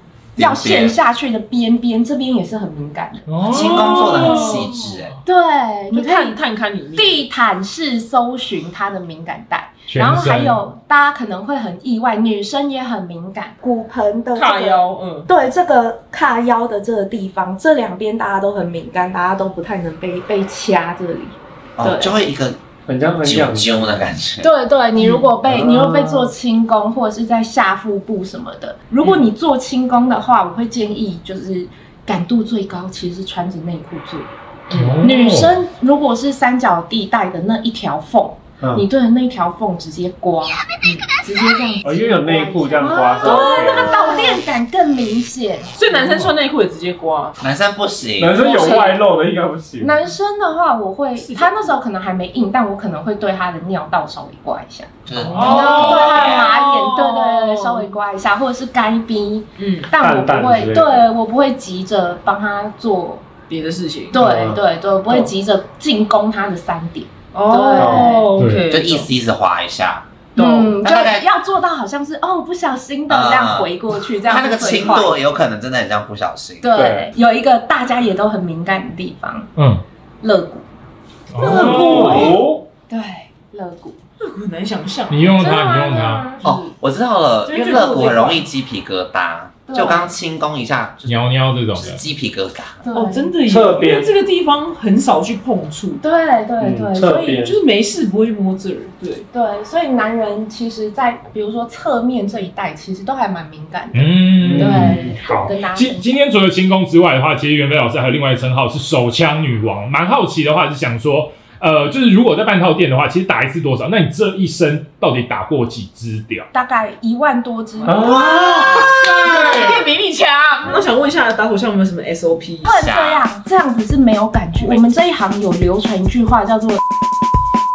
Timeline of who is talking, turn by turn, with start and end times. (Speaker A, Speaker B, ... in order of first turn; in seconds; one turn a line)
Speaker A: 0.4-1.0
Speaker B: 0.4-4.6
Speaker C: 3.3-5.2
Speaker A: 3.5-5.2
Speaker B: 5.2-6.4
Speaker D: 5.9-7.3
Speaker B: 7.0-22.2
Speaker C: 9.9-10.6
Speaker D: 14.3-15.3
Speaker A: 21.8-22.6
Speaker E: 22.9-23.8
Speaker A: 23.2-24.5
Speaker B: 24.4-34.3
Speaker D: 25.0-25.3
Speaker E: 25.4-26.3
Speaker D: 29.0-29.3
Speaker D: 34.7-35.0
Speaker C: 34.7-35.6
Speaker B: 35.0-40.6
Speaker E: 38.6-38.9
Speaker B: 41.2-45.7
Speaker E: 41.8-44.4
Speaker D: 43.2-44.4
Speaker D: 45.8-47.4
Speaker A: 47.4-48.4
Speaker E: 48.2-50.0
Speaker B: 48.4-49.0
Speaker D: 48.5-48.9
Speaker B: 49.8-63.2
Speaker D: 51.2-51.7
Speaker A: 55.1-56.6
Speaker C: 55.2-56.2
Speaker D: 55.5-57.9
Speaker D: 59.6-59.9
Speaker E: 60.0-61.1
Speaker D: 63.5-64.2
Speaker B: 64.1-68.3
Speaker E: 64.1-65.3
Speaker D: 67.3-69.1
Speaker E: 67.8-68.2
Speaker C: 68.4-68.6
Speaker A: 68.7-70.1
Speaker D: 70.3-70.8
Speaker B: 70.4-75.2
Speaker A: 70.8-71.3
Speaker A: 73.1-76.7
Speaker B: 76.6-79.5
Speaker E: 76.7-77.1
Speaker C: 79.6-79.8
Speaker B: 80.2-80.7
Speaker C: 81.3-82.4
Speaker E: 81.4-82.7
Speaker B: 81.4-82.4
Speaker A: 81.5-82.4
Speaker B: 82.9-84.0
Speaker D: 84.2-86.7
Speaker C: 85.1-86.3
Speaker B: 85.4-86.4
Speaker A: 86.4-91.2
Speaker D: 87.5-88.5
Speaker B: 89.7-90.1
Speaker C: 91.1-92.0
Speaker A: 91.8-92.8
Speaker B: 92.8-93.3
Speaker D: 92.9-96.0
Speaker E: 93.4-94.1
Speaker B: 96.0-97.1
Speaker E: 96.6-97.6
Speaker D: 96.9-99.3
Speaker B: 99.3-106.2
Speaker C: 103.9-116.5
Speaker E: 104.4-105.2
Speaker B: 116.5-118.4
Speaker E: 117.8-118.8
Speaker D: 117.9-122.8
Speaker C: 118.9-119.8
Speaker B: 122.7-126.8
Speaker A: 122.7-123.3
Speaker D: 124.6-124.9